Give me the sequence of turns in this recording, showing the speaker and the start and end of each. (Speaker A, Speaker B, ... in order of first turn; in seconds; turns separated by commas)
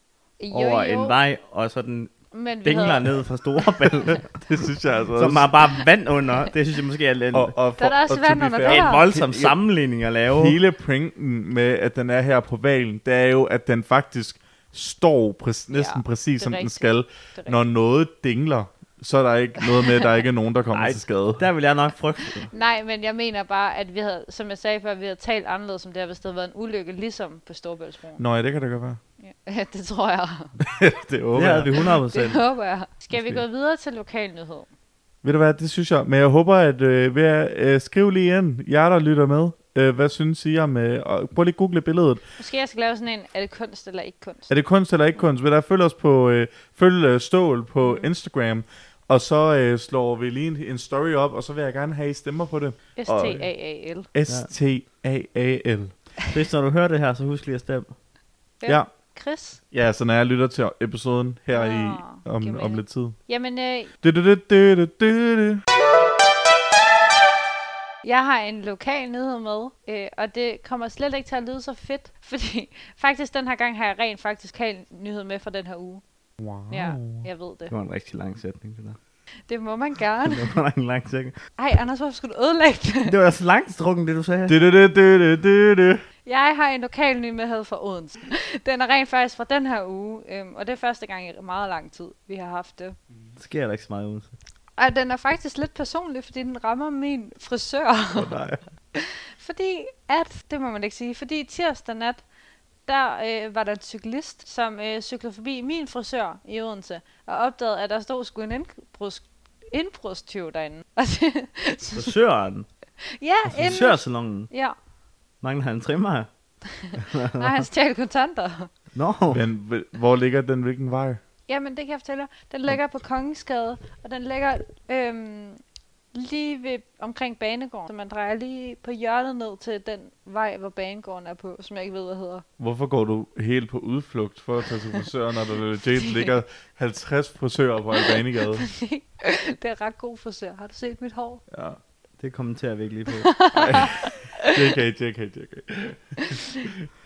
Speaker A: 0.4-1.2, Speaker B: 0.5-4.2, Speaker A: 2.3-3.3, Speaker C: 4.3-5.6, Speaker B: 5.2-7.5, Speaker C: 7.3-9.6, Speaker A: 7.8-9.1, Speaker B: 8.6-10.6, Speaker C: 10.3-21.5, Speaker A: 15.7-17.6, Speaker B: 20.7-22.5, Speaker A: 22.5-28.2, Speaker C: 28.2-29.0, Speaker A: 29.2-30.6, Speaker C: 30.6-31.8, Speaker B: 31.3-32.4, Speaker A: 31.8-34.7, Speaker B: 33.1-33.4, Speaker C: 35.2-42.2, Speaker A: 42.4-44.5, Speaker C: 44.5-53.5, Speaker A: 47.8-48.1, Speaker A: 53.0-54.1, Speaker C: 54.1-55.9, Speaker B: 56.3-57.9, Speaker A: 58.6-59.6, Speaker C: 59.7-63.2, Speaker A: 61.5-63.9, Speaker C: 64.0-65.6, Speaker A: 68.0-76.0, Speaker C: 76.4-77.3, Speaker A: 76.7-77.7, Speaker B: 77.7-79.0, Speaker A: 79.5-80.5, Speaker B: 80.2-81.4, Speaker A: 81.6-83.2, Speaker B: 83.0-84.6, Speaker C: 84.5-86.0, Speaker A: 86.3-93.0, Speaker B: 93.4-94.3, Speaker A: 94.8-98.3, Speaker C: 98.2-98.6, Speaker B: 98.2-98.6, Speaker A: 98.9-102.2, Speaker A: 102.9-112.2, Speaker B: 111.9-112.7, Speaker A: 113.2-114.8, Speaker B: 113.5-114.5, Speaker B: 115.4-116.3, Speaker A: 116.8-118.7, Speaker B: 116.9-117.7, Speaker B: 119.0-119.4, Speaker C: 119.3-121.2, Speaker A: 121.5-125.6, Speaker A: 126.1-132.4, Speaker C: 132.6-138.7, Speaker A: 136.0-136.3, Speaker A: 138.0-141.4, Speaker C: 141.5-141.8, Speaker B: 142.2-143.8, Speaker A: 143.1-144.6, Speaker C: 143.5-146.8